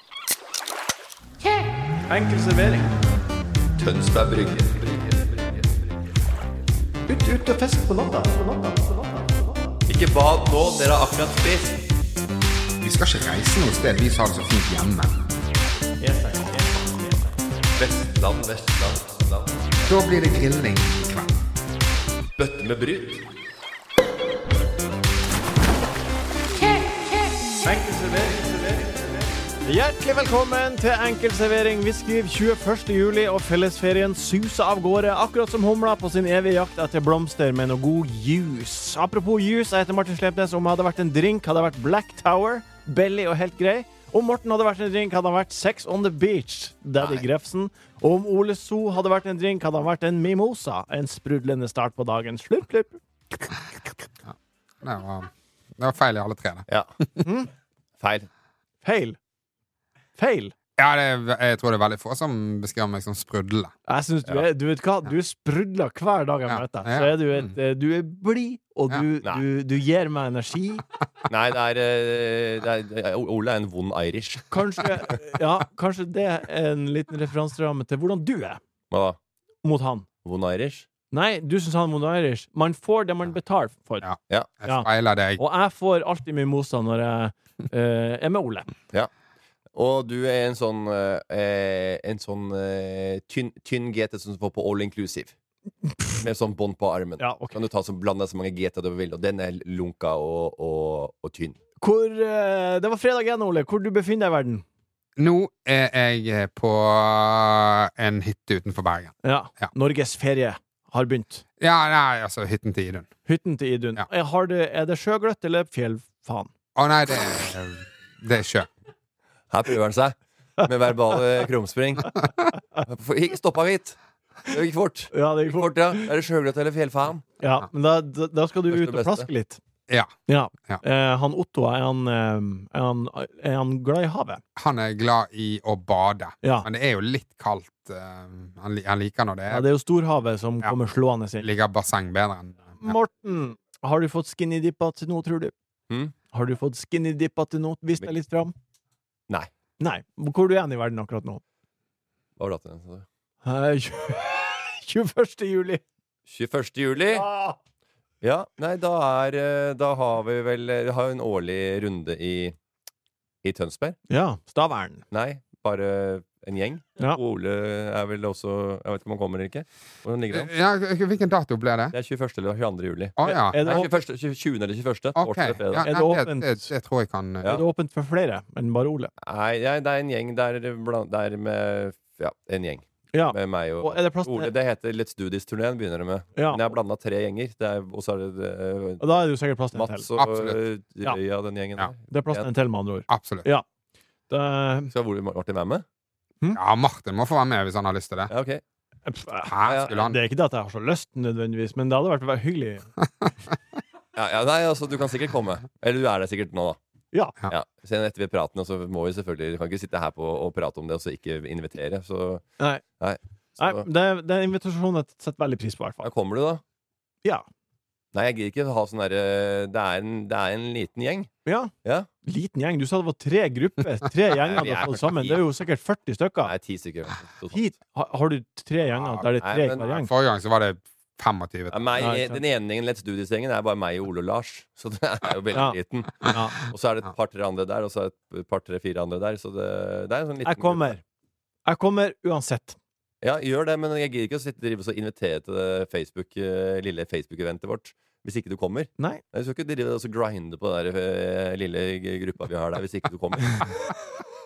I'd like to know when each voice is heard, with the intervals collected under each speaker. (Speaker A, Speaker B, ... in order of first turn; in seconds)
Speaker A: 2.1-2.9, 7.1-9.8, 16.0-17.3, 27.6-28.9, 29.6-53.0, 57.2-57.5, 58.8-59.2, 60.2-60.5, 63.9-70.8, 74.5-78.6, 79.6-80.1, 81.1-84.1, 85.4-88.7, 97.2-97.6, 101.8-104.6, 109.2-111.4, 113.3-116.5, 125.1-126.1, 127.4-129.6, 130.3-134.4, 136.4-136.7, 139.5-141.4, 142.8-145.5, 146.3-148.5, 149.8-151.4, 153.4-155.8, 157.1-157.6, 164.1-165.1, 173.2-173.9, 175.8-176.7, 177.4-179.1, 183.1-184.5, 186.4-186.7, 189.0-190.0, 192.1-193.7, 194.3-194.9, 199.1-202.9, 213.6-216.1, 221.4-221.7, 222.2-226.5, 227.5-230.1, 232.0-232.4, 235.5-236.6, 240.4-241.0, 241.7-242.8
Speaker B: 3.8-5.9, 9.9-11.8, 17.8-19.5, 22.4-23.2, 47.0-47.2, 56.7-56.9, 58.0-58.3, 71.3-74.5, 78.9-79.2, 80.2-80.9, 89.8-95.3, 96.2-101.6, 119.5-122.1, 122.8-127.2, 128.7-129.3, 152.4-153.1, 156.3-157.3, 158.2-162.6, 163.4-164.0, 165.1-170.5, 171.9-175.9, 179.2-189.2, 189.7-192.5, 194.9-195.8, 198.3-198.6, 199.7-200.0, 204.2-206.8, 207.5-212.5, 213.0-213.9, 216.0-216.6, 218.1-221.3, 224.3-225.4, 226.4-227.7, 229.4-229.8, 231.7-240.9, 243.2-253.8
Speaker C: 12.8-15.2, 19.9-21.4, 54.3-57.2, 60.8-63.7, 66.5-67.4, 84.0-85.4, 105.2-109.7, 111.6-113.1, 116.8-118.7, 134.6-139.7, 141.4-143.0, 170.3-171.9, 173.2-173.7, 175.2-177.6, 190.2-190.6, 193.1-193.5, 196.5-198.3, 199.5-200.2, 229.0-229.2, 229.9-231.9